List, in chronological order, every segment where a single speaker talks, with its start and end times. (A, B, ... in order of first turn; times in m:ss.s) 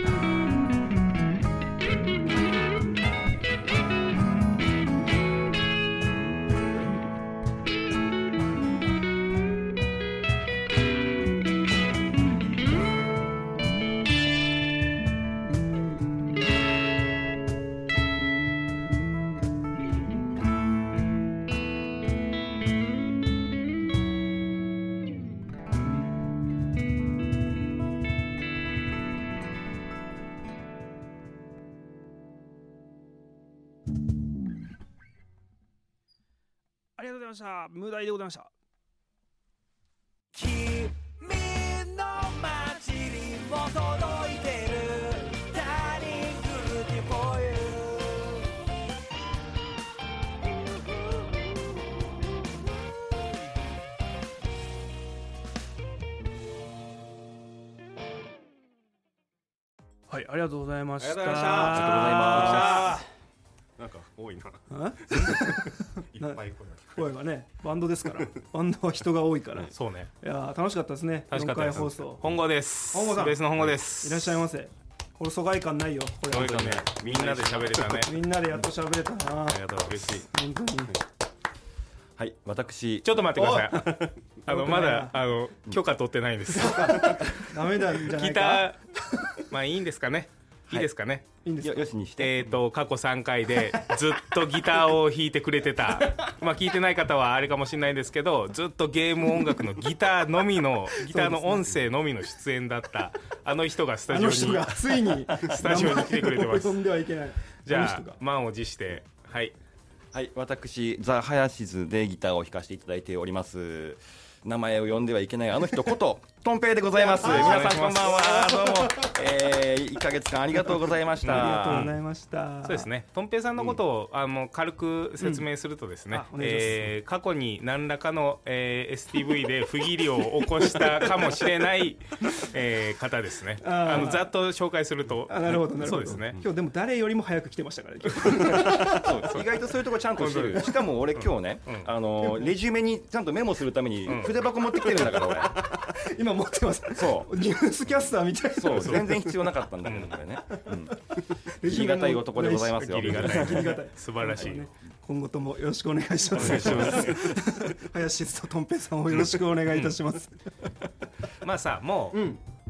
0:37.0-0:38.5 A
0:40.3-0:48.5 B
1:00.1-1:03.0 A
1:01.3-1:03.0 C
1:01.4-1:02.8 D
1:01.5-1:02.9 E
1:03.8-1:07.0 D
1:04.7-1:06.4 A
1:06.9-1:12.3 A
1:09.7-1:10.1 E
1:11.3-1:14.4 E
1:12.9-1:16.8 A
1:16.3-1:18.2 E
1:16.5-1:18.1 D
1:18.0-1:21.0 A
1:19.6-1:20.1 E
1:19.8-1:20.2 D
1:22.2-1:23.2 C
1:23.0-1:27.3 E
1:23.4-1:25.2 A
1:26.6-1:29.4 A
1:28.0-1:28.8 E
1:29.4-1:31.3 E
1:31.4-1:31.9 A
1:31.6-1:32.6 C
1:32.2-1:46.8 E
1:41.0-1:41.8 A
1:44.1-1:48.2 A
1:47.7-1:49.6 E
1:50.1-2:01.9 C
1:57.0-1:58.6 E
2:01.2-2:02.0 E
2:01.3-2:02.9 A
2:02.6-2:16.4 E
2:06.1-2:06.9 A
2:13.6-2:14.3 A
2:15.3-2:19.1 A
2:18.3-2:19.5 E
2:18.6-2:25.6 C
2:20.2-2:21.9 E
2:24.1-2:24.4 E
2:25.4-2:29.2 A
2:26.9-2:27.3 C
2:28.6-2:31.0 C
2:29.8-2:30.6 E
2:31.5-2:40.9 A
2:31.6-2:33.7 C
2:32.8-2:34.7 E
2:36.4-2:37.4 E
2:39.7-2:40.0 E
2:41.4-2:42.3 E
2:42.1-2:42.4 A